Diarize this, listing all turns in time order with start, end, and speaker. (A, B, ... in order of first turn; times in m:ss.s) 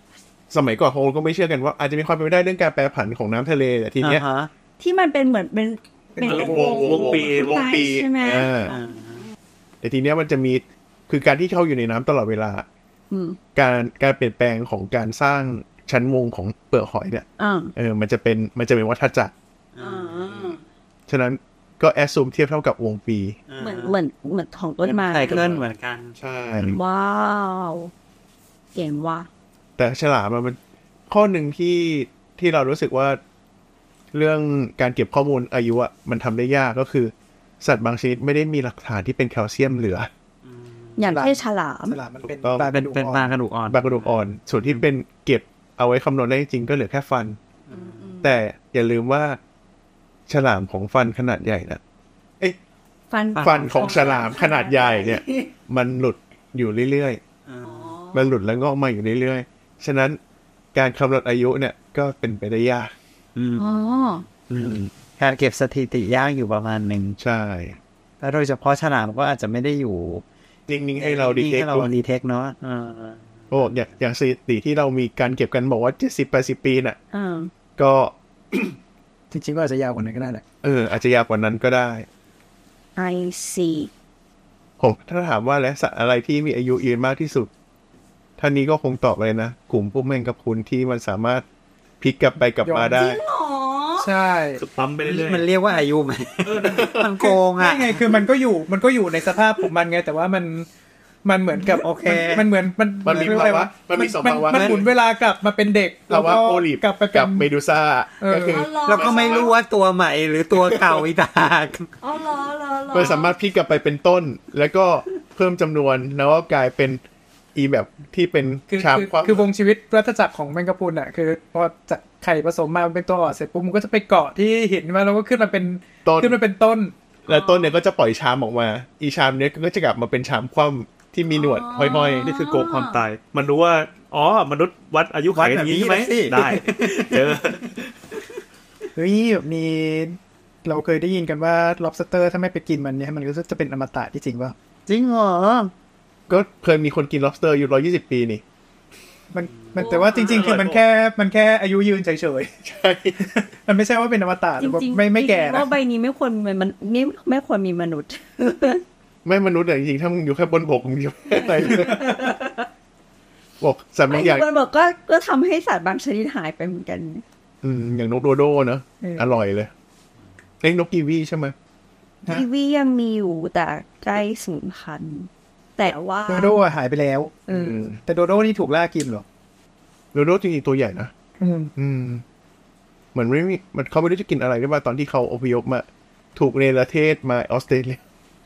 0:00.5-0:04.2 A
0:04.0-0:04.5 B
0:04.8-0:08.7 C
0:06.2-0:06.8 D
0:06.2-0:08.8 A
0:06.3-0:07.7 E
0:08.7-0:09.2 B
0:09.8-0:12.7 A
0:13.1-0:13.4 C
0:13.6-0:19.3 A
0:17.4-0:17.7 C
0:19.8-0:20.6 B
0:19.8-0:20.6 C
0:21.1-0:23.4 A
0:23.5-0:24.0 B
0:23.6-0:25.4 C
0:24.8-0:26.2 B
0:25.3-0:25.6 A
0:26.2-0:26.8 A
0:26.6-0:27.9 C
0:28.8-0:29.3 C
0:29.8-0:30.6 A
0:31.1-0:33.2 A
0:34.1-0:40.1 A
0:40.4-0:41.0 B
0:41.0-0:42.0 C
0:41.1-0:43.3 D
0:42.4-0:42.7 A
0:42.6-0:44.1 B
0:43.7-0:47.4 A
0:47.7-0:48.0 B
0:47.7-0:48.3 C
0:48.2-0:49.4 A
0:50.3-0:51.8 A
0:53.1-0:55.5 C
0:53.4-0:54.3 B
0:53.4-0:57.2 A
0:57.5-0:57.9 B
0:57.6-0:58.3 C
0:58.1-1:00.2 A
1:00.7-1:02.9 A
1:03.4-1:03.6 B
1:03.6-1:04.2 C
1:04.5-1:04.9 A
1:04.5-1:07.2 B
1:07.2-1:07.8 A
1:08.2-1:10.2 B
1:10.7-1:11.9 A
1:11.0-1:13.7 B
1:13.5-1:17.0 A
1:17.1-1:17.5 C
1:17.8-1:18.8 A
1:19.3-1:20.4 D
1:20.6-1:22.1 A
1:23.0-1:23.9 C
1:24.8-1:27.5 A
1:28.4-1:31.4 A
1:32.0-1:33.2 A
1:32.6-1:33.0 D
1:32.9-1:34.1 C
1:34.0-1:34.6 D
1:34.6-1:35.5 E
1:35.0-1:38.2 B
1:36.4-1:37.4 E
1:37.5-1:40.7 D
1:41.2-1:47.5 D
1:41.8-1:42.5 B
1:43.0-1:44.9 A
1:46.1-1:49.5 A
1:48.2-1:48.7 D
1:48.5-1:49.5 C
1:48.8-1:51.9 B
1:50.6-1:51.0 A
1:52.0-1:53.4 C
1:52.9-1:57.0 A
1:57.6-1:59.5 A
1:58.7-2:06.9 D
2:06.0-2:06.4 A
2:07.3-2:12.5 A
2:07.3-2:07.7 C
2:11.3-2:13.0 C
2:11.8-2:17.9 E
2:15.3-2:17.3 B
2:19.0-2:24.6 D
2:24.9-2:25.7 B
2:26.3-2:28.4 A
2:29.3-2:32.6 D
2:29.8-2:30.6 C
2:30.3-2:30.8 A
2:32.6-2:33.2 A
2:33.2-2:35.7 D
2:34.6-2:38.8 C
2:39.2-2:42.1 A
2:41.4-2:42.7 C
2:43.6-2:44.5 A
2:44.1-2:47.2 C
2:47.6-2:49.7 A
2:50.6-2:51.5 A
2:52.3-2:56.6 C
2:56.3-2:59.2 D
2:57.5-2:58.0 A
3:00.1-3:01.1 A
3:01.4-3:01.7 D
3:01.8-3:02.2 A
3:03.1-3:08.0 A